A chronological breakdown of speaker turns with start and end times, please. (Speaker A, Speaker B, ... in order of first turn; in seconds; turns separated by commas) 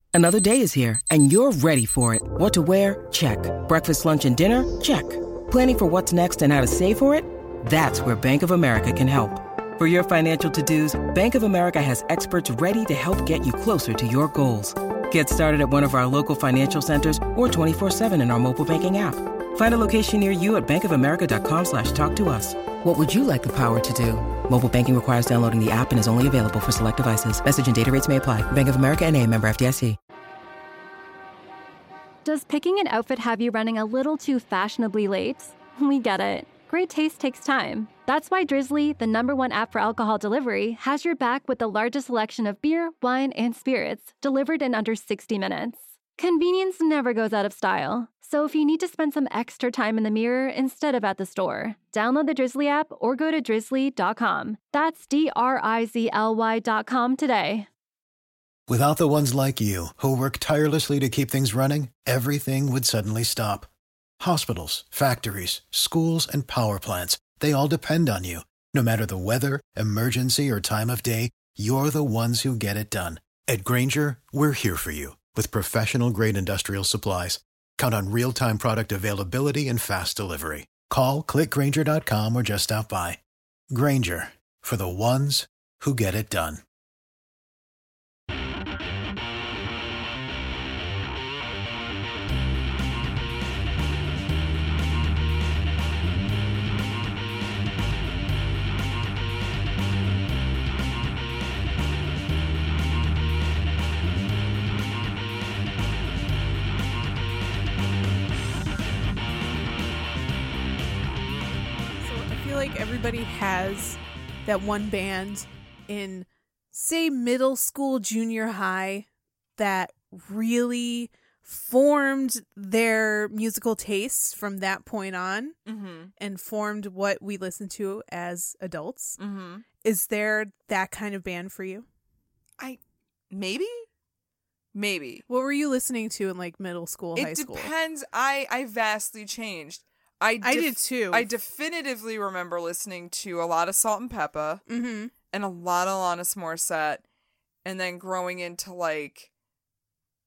Speaker A: 0.1-30.0, Speaker B: 32.2-57.7, Speaker C: 58.7-63.7, Speaker C: 64.2-83.2, Speaker C: 83.7-86.6, Speaker D: 112.0-125.5, Speaker E: 125.7-126.1, Speaker D: 126.2-129.2, Speaker E: 129.2-129.6, Speaker D: 129.8-131.8, Speaker E: 133.3-133.9, Speaker E: 134.7-135.2, Speaker D: 135.3-137.7, Speaker E: 137.2-144.6, Speaker D: 140.4-141.3, Speaker D: 144.7-145.1, Speaker E: 145.3-147.0, Speaker E: 147.6-149.3